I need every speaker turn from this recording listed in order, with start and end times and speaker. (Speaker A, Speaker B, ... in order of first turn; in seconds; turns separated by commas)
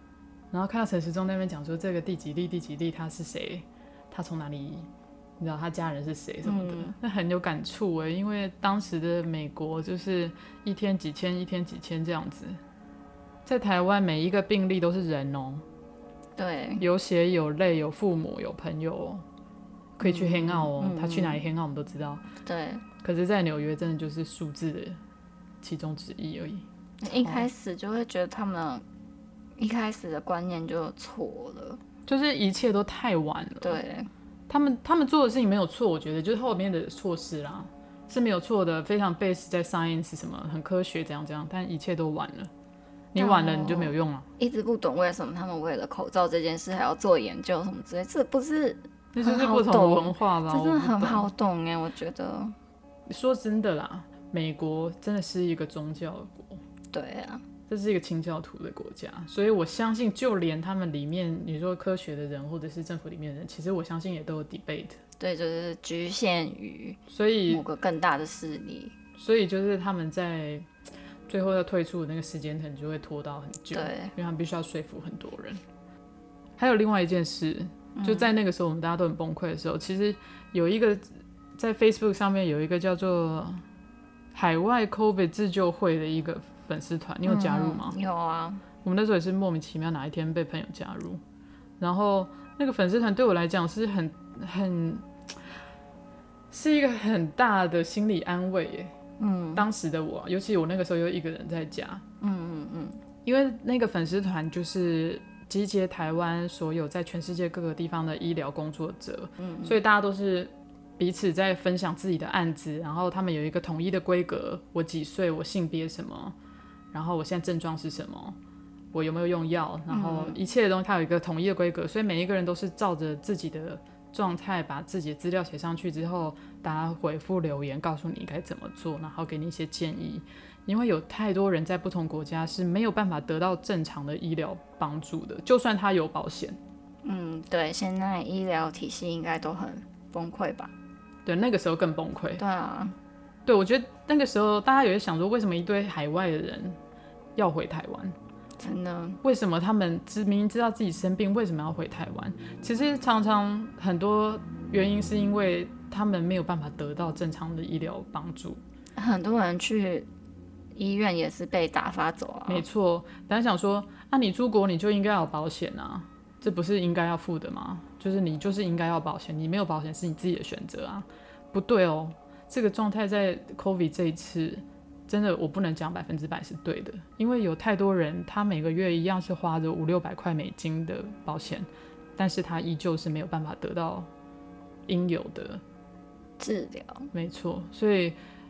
Speaker A: 0.5-4.9, Speaker A: 5.4-12.6, Speaker B: 6.4-7.0, Speaker A: 13.4-15.6, Speaker B: 16.4-16.8, Speaker A: 16.8-19.2, Speaker A: 20.0-22.2, Speaker B: 20.0-21.4, Speaker B: 22.4-22.8, Speaker A: 23.0-25.0, Speaker A: 25.6-27.5, Speaker B: 27.0-28.8, Speaker B: 29.6-31.8, Speaker A: 32.1-33.8, Speaker B: 33.6-34.1, Speaker A: 34.5-42.5, Speaker A: 43.1-44.3, Speaker B: 43.2-52.5, Speaker A: 49.1-51.3, Speaker A: 53.1-56.6, Speaker B: 56.9-57.4, Speaker A: 57.7-65.0, Speaker B: 65.2-68.9, Speaker A: 67.1-67.6, Speaker A: 69.2-70.7, Speaker A: 71.3-75.6, Speaker B: 73.7-74.1, Speaker A: 76.6-83.6, Speaker B: 77.9-78.3, Speaker A: 84.3-88.0, Speaker B: 87.2-88.6, Speaker A: 88.8-91.2, Speaker A: 91.8-95.3, Speaker A: 96.5-98.9, Speaker B: 99.2-99.6, Speaker A: 99.5-102.0, Speaker B: 102.2-103.0, Speaker A: 103.2-116.3, Speaker B: 109.4-109.8, Speaker A: 116.9-118.4, Speaker A: 118.9-136.6, Speaker B: 119.9-120.4, Speaker B: 137.0-140.7, Speaker A: 141.2-142.4, Speaker B: 142.4-142.9, Speaker A: 143.4-146.8, Speaker A: 147.3-148.2, Speaker B: 148.6-149.2, Speaker A: 149.2-158.6, Speaker B: 159.0-160.1, Speaker B: 160.8-162.6, Speaker A: 162.5-184.1, Speaker A: 184.9-185.6, Speaker B: 186.4-187.1, Speaker A: 187.1-188.2